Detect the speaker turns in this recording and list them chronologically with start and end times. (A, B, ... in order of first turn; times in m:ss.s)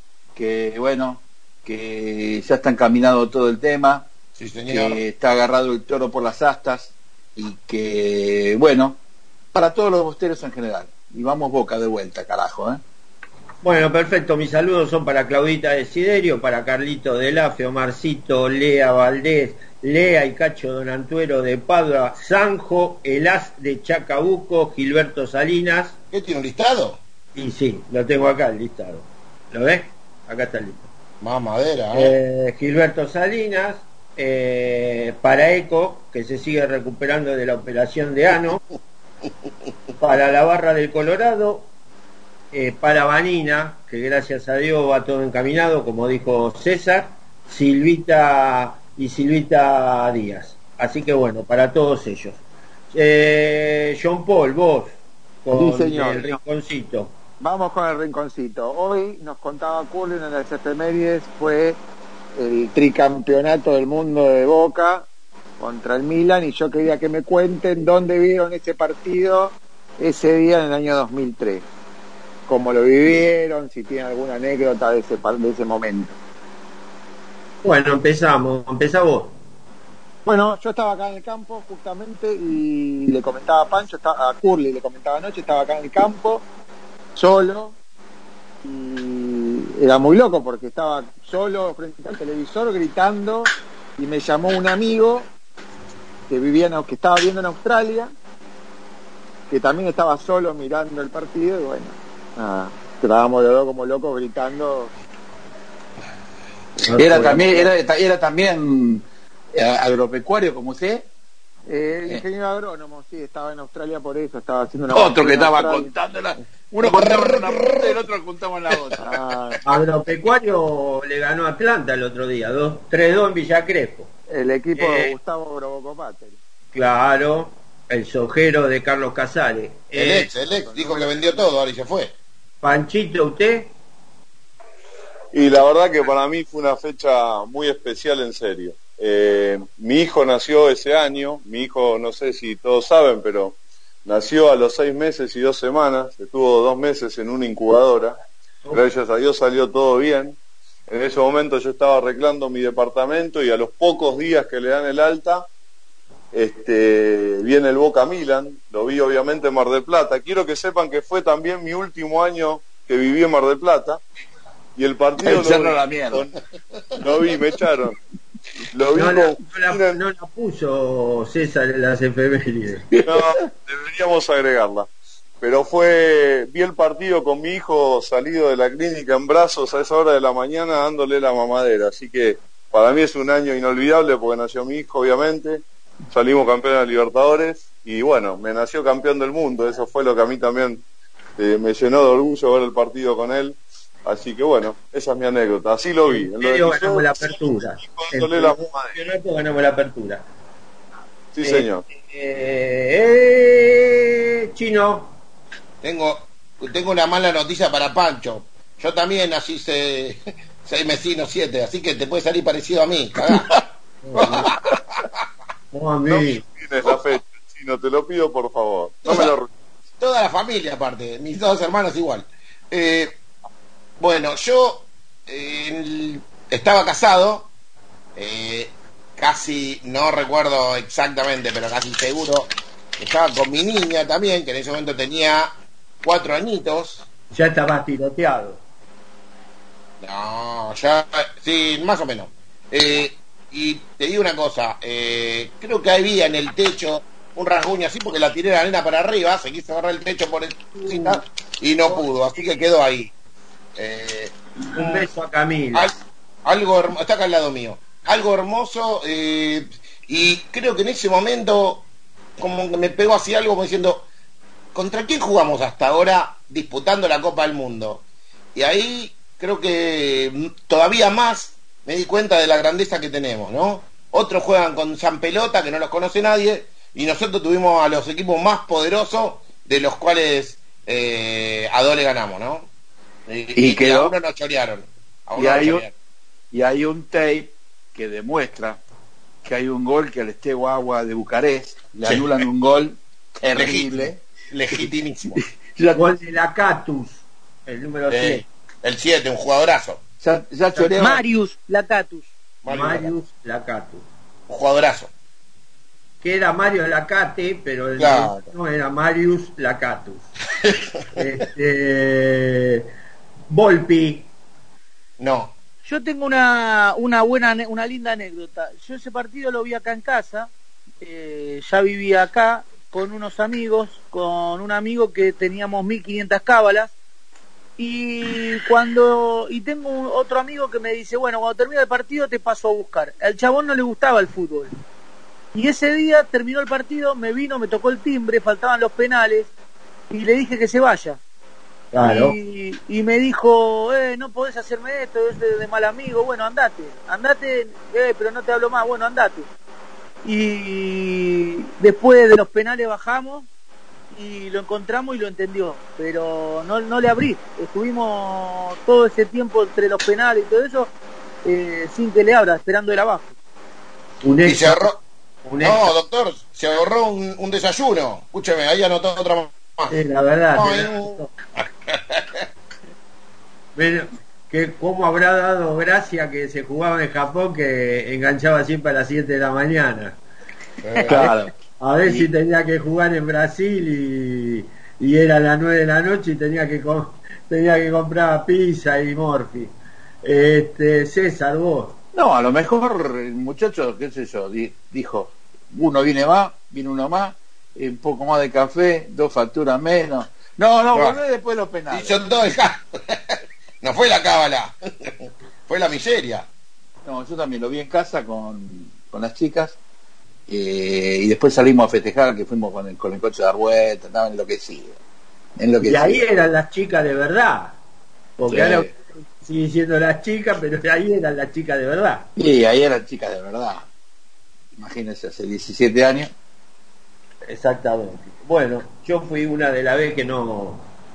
0:00.4-0:04.1 A
0:04.4-0:05.0 B
0:04.7-0:09.0 A
0:09.5-0:12.8 A
0:13.6-0:26.0 C
0:26.1-0:27.0 B
0:27.4-0:30.9 C
0:31.2-0:32.2 B
0:31.9-0:38.6 C
0:40.0-0:41.7 C
0:42.5-0:52.4 C
0:52.9-0:57.1 C
0:55.5-0:56.4 D
0:57.4-1:01.8 D
1:02.4-1:05.1 D
1:05.6-1:11.6 D
1:12.5-1:16.1 D
1:17.6-1:19.4 C
1:20.2-1:26.4 D
1:27.2-1:27.8 D
1:28.6-1:35.3 D
1:36.3-1:38.1 D
1:39.5-1:44.9 D
1:46.8-1:47.7 D
1:46.9-1:47.5 C
1:46.9-1:51.0 A
1:51.7-1:55.9 D
1:54.9-1:59.2 A
1:56.8-1:58.0 B
1:59.0-1:59.6 D
1:59.6-2:04.1 C
2:04.3-2:06.4 D
2:04.8-2:05.1 C
2:06.7-2:10.4 C
2:09.9-2:12.1 B
2:10.5-2:11.2 D
2:12.6-2:13.7 C
2:15.3-2:28.2 E
2:28.7-2:30.4 E
2:30.9-2:35.5 E
2:36.3-2:44.0 E
2:44.8-2:46.3 E
2:45.2-2:46.2 A
2:47.0-2:48.0 E
2:48.7-2:50.0 E
2:48.9-2:52.9 C
2:52.9-2:53.2 A
2:53.0-2:54.9 E
2:55.4-3:10.8 E
3:11.4-3:19.0 E
3:16.1-3:20.2 C
3:21.4-3:21.9 E
3:21.4-3:25.1 C
3:25.8-3:33.6 B
3:34.0-3:34.5 C
3:34.2-3:35.1 B
3:35.7-3:36.4 C
3:36.1-3:39.5 E
3:39.0-3:39.3 B
3:40.0-3:43.2 B
3:44.0-3:47.5 B
3:48.1-3:57.1 B
3:57.3-3:58.6 C
4:00.0-4:13.1 B
4:10.7-4:11.2 C
4:13.8-4:15.1 B
4:14.7-4:16.0 C
4:15.7-4:21.8 B
4:22.4-4:24.0 B
4:24.7-4:28.0 B
4:28.5-4:42.7 B
4:43.3-4:45.9 B
4:43.6-4:44.2 A
4:45.4-4:45.8 A
4:46.5-4:48.8 A
4:49.4-4:54.2 A
4:53.5-4:55.4 B
4:55.4-4:56.0 A
4:55.9-4:58.4 C
4:58.1-5:00.0 B
5:00.2-5:01.2 A
5:01.0-5:02.2 F
5:02.6-5:03.1 B
5:02.6-5:04.0 C
5:04.5-5:05.1 B
5:06.2-5:10.3 C
5:08.0-5:08.5 B
5:11.1-5:12.9 C
5:13.5-5:14.3 C
5:15.2-5:15.5 B
5:15.8-5:26.9 F
5:27.8-5:34.7 F
5:35.5-5:39.5 F
5:40.1-5:41.2 F
5:41.9-5:42.4 C
5:42.0-5:49.5 F
5:50.2-5:53.5 F
5:54.1-6:00.9 F
6:01.4-6:03.3 F
6:04.2-6:04.9 C
6:04.4-6:05.0 B
6:05.4-6:05.9 C
6:05.6-6:09.9 B
6:09.9-6:11.3 C
6:10.5-6:12.4 B
6:13.8-6:20.2 C
6:20.8-6:21.4 B
6:21.1-6:22.3 A
6:21.1-6:32.0 C
6:32.1-6:42.2 A
6:40.9-6:41.2 B
6:41.9-6:46.5 B
6:47.0-6:49.8 A
6:50.5-6:55.0 A
6:55.6-6:56.2 A
6:55.8-6:57.8 C
6:58.4-7:02.3 C
6:58.5-6:58.9 A
7:02.4-7:03.9 A
7:04.8-7:06.3 A
7:07.5-7:10.8 C